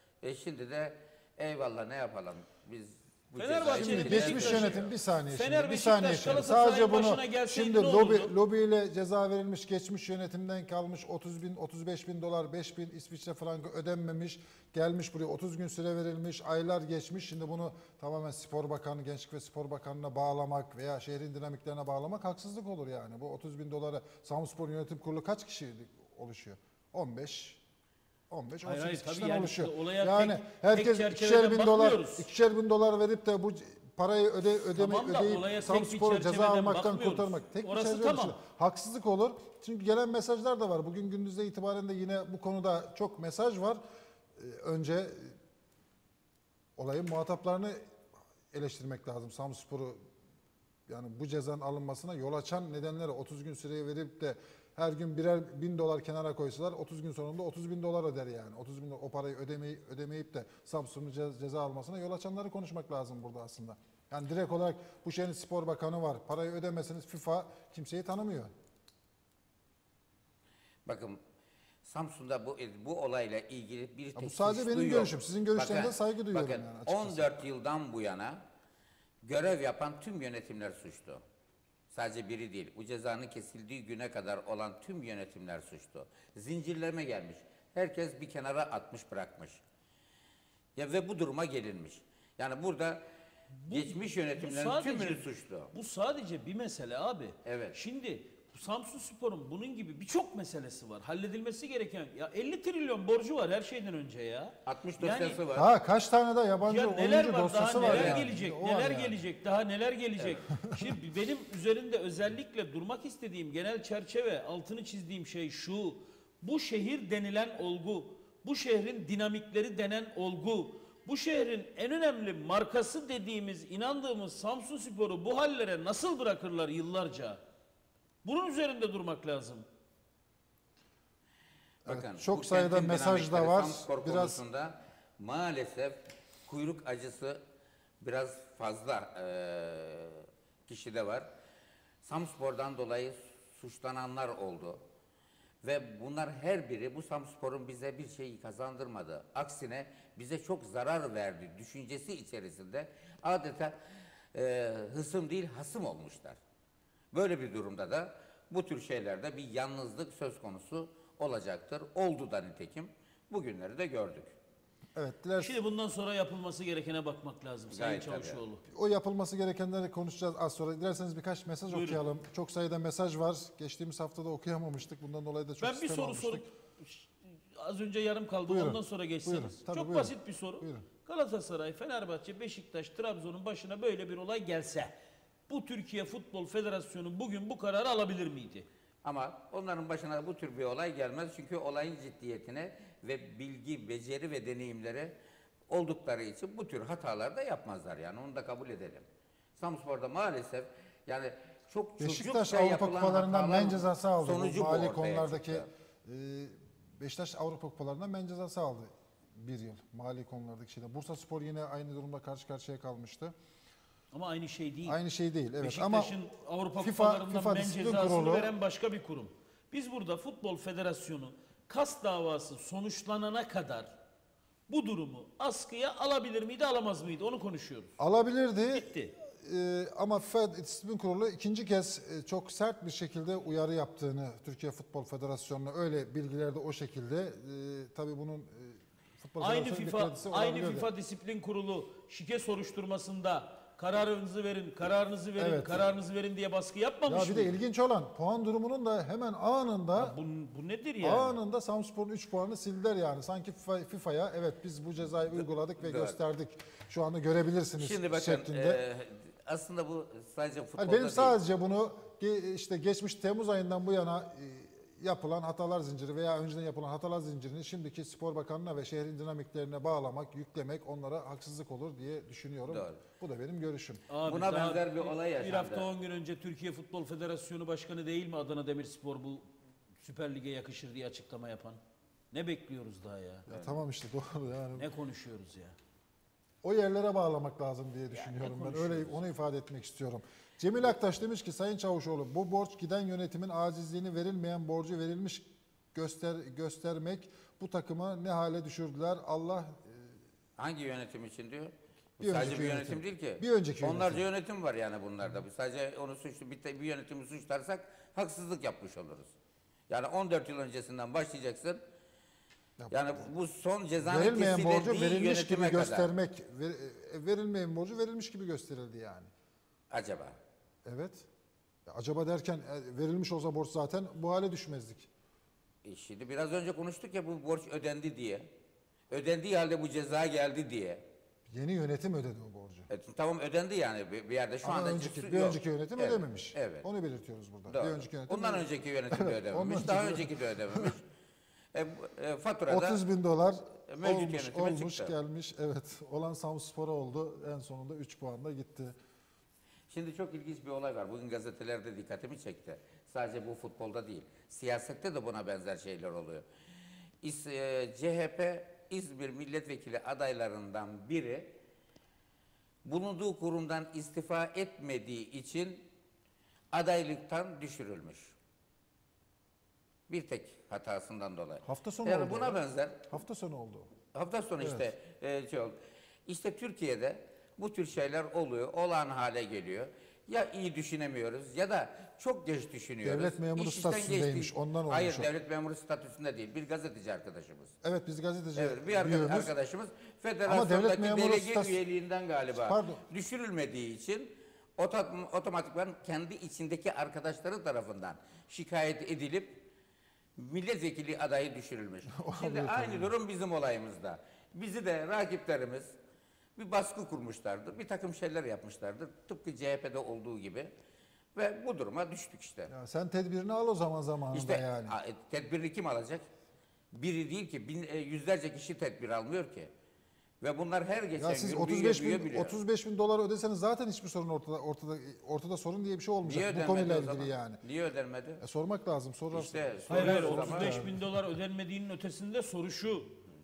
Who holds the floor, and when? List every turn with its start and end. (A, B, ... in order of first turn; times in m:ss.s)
0:00.2-0:04.9 A
0:03.4-0:08.3 B
0:03.7-0:27.6 C
0:28.3-0:43.8 C
0:28.6-0:32.3 B
0:34.8-0:38.4 B
0:44.4-0:45.4 C
0:46.8-0:47.8 C
0:48.5-0:50.0 C
0:50.9-1:08.5 C
1:10.9-1:11.2 A
1:11.8-1:18.4 A
1:14.2-1:17.4 C
1:19.2-1:21.2 A
1:21.9-1:29.6 A
1:30.8-1:33.1 A
1:33.6-1:45.4 B
1:33.7-1:35.7 A
1:37.4-1:37.8 A
1:44.7-1:45.7 A
1:45.5-1:49.2 C
1:46.6-2:07.4 B
1:47.8-1:48.2 A
2:08.2-2:09.7 B
2:11.9-2:14.4 C
2:11.9-2:17.4 A
2:18.0-2:21.3 A
2:22.0-2:24.8 A
2:25.6-2:33.8 A
2:34.3-2:36.4 A
2:37.1-2:44.3 A
2:45.0-2:45.6 C
2:45.4-2:48.6 B
2:47.7-2:48.4 A
2:48.7-2:56.5 C
2:51.7-2:52.0 B
2:55.6-3:04.9 B
2:58.5-3:00.9 C
3:05.5-3:08.7 B
3:09.0-3:15.1 A
3:15.7-3:19.1 A
3:19.6-3:25.7 A
3:22.0-3:33.3 C
3:34.1-3:35.0 B
3:34.9-3:36.2 C
3:35.6-3:43.9 B
3:36.8-3:38.5 C
3:44.7-3:48.0 B
3:48.0-4:00.9 C
3:48.7-3:49.1 B
3:59.4-4:07.5 B
4:05.4-4:05.9 C
4:07.1-4:10.2 C
4:10.0-4:11.4 B
4:11.0-4:18.8 C
4:15.8-4:16.2 A
4:17.8-4:21.4 A
4:20.8-4:34.0 C
4:32.7-4:33.0 A
4:34.1-4:39.5 B
4:34.2-4:35.9 A
4:40.0-4:41.8 B
4:42.3-4:43.5 B
4:43.5-4:44.9 C
4:44.8-4:45.8 B
4:46.6-5:00.2 C
4:48.2-4:49.2 B
5:00.6-5:09.3 A
5:02.2-5:04.2 C
5:09.9-5:11.8 A
5:12.8-5:13.2 C
5:12.9-5:16.1 A
5:14.0-5:19.3 C
5:19.9-5:20.4 A
5:20.8-5:21.3 C
5:21.9-5:25.1 C
5:25.8-5:28.5 A
5:29.1-5:31.0 A
5:31.5-5:32.9 C
5:32.9-5:36.9 A
5:34.6-5:41.0 C
5:37.7-5:41.0 A
5:41.7-5:43.0 A
5:42.7-5:49.0 C
5:43.9-5:45.2 A
5:49.9-5:56.4 A
5:57.2-6:01.6 A
6:02.8-6:05.9 A
6:06.7-6:08.3 A
6:10.1-6:13.0 A
6:11.6-6:13.9 C
6:14.1-6:27.8 A
6:14.6-6:14.9 C
6:23.0-6:25.3 C
6:27.8-6:29.5 C
6:28.6-6:39.7 A
6:30.5-6:31.8 C
6:32.6-6:33.0 C
6:40.4-6:45.9 A
6:42.1-6:43.1 C
6:46.6-6:50.7 A
6:51.4-6:52.7 A
6:52.7-6:55.0 C
6:54.3-6:56.3 A
6:56.9-6:59.7 A
7:00.4-7:02.6 A
7:01.2-7:07.6 C
7:06.2-7:08.4 A
7:08.4-7:11.0 C
7:09.3-7:10.8 A
7:09.9-7:13.2 B